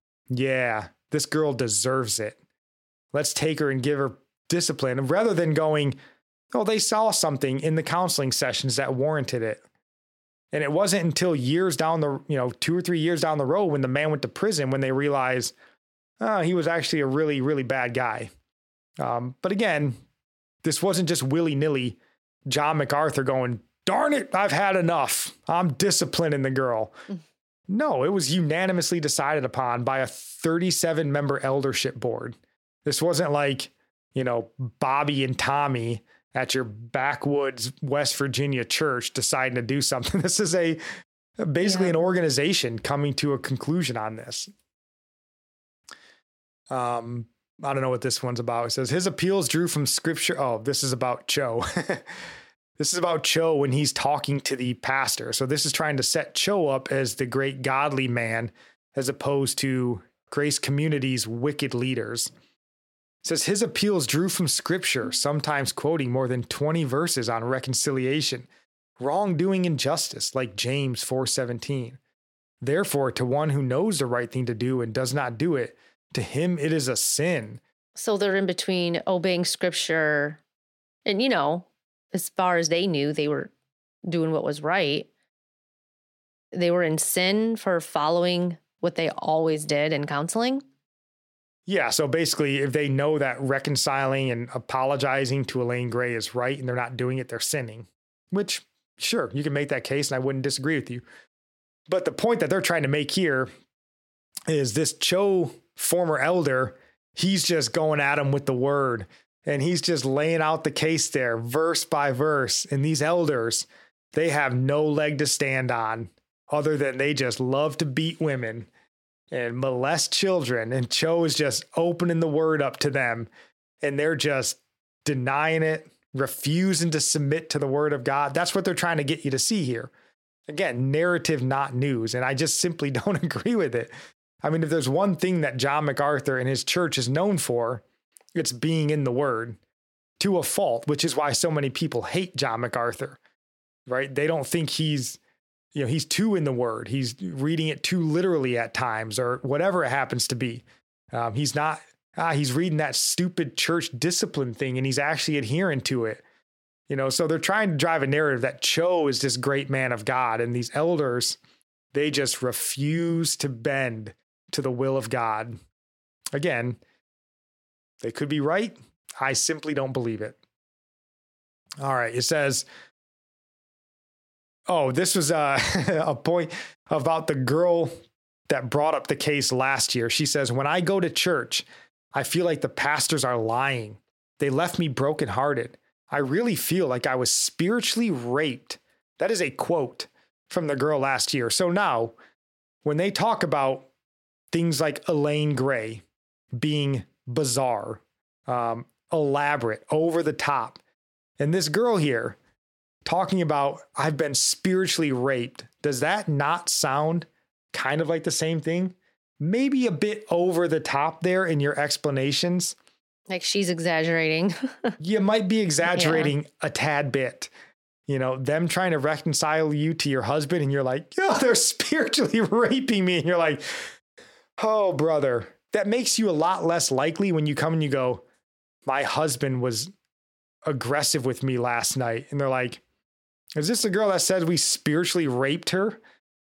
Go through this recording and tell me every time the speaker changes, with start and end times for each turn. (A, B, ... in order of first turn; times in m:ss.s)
0:00.3-0:02.4 A
0:03.1-0:06.0 A
0:06.5-0:09.6 A
0:10.5-0:15.5 A
0:16.2-0:18.3 A
0:19.0-0:20.0 A
0:20.6-0:27.0 A
0:27.7-0:40.8 A
0:41.4-0:44.5 A
0:41.6-0:41.9 B
0:46.7-0:52.2 A
0:52.8-1:02.3 A
1:03.2-1:08.5 A
1:09.0-1:12.0 A
1:12.6-1:17.6 A
1:18.0-1:20.4 B
1:21.0-1:23.5 B
1:24.0-1:25.1 B
1:26.5-1:30.6 B
1:31.6-1:41.0 A
1:41.9-1:43.5 A
1:44.5-1:58.7 A
1:59.3-2:03.3 A
2:03.8-2:09.9 A
2:10.5-2:17.8 A
2:18.4-2:19.6 A
2:20.2-2:23.2 A
2:23.9-2:25.2 A
2:25.7-2:36.2 A
2:36.9-2:41.4 A
2:41.9-2:45.6 A
2:46.3-2:46.8 A
2:48.0-2:50.4 A
2:51.8-2:52.6 A
2:54.7-2:57.9 A
2:58.5-3:12.1 A
3:12.8-3:13.9 A
3:14.5-3:16.0 A
3:16.6-3:20.8 A
3:21.4-3:22.4 A
3:23.0-3:32.8 A
3:33.3-3:34.9 B
3:35.0-3:37.5 A
3:35.9-3:36.3 B
3:38.1-3:43.9 A
3:44.6-3:48.2 A
3:48.8-3:49.9 A
3:50.6-3:52.8 A
3:53.6-3:56.0 A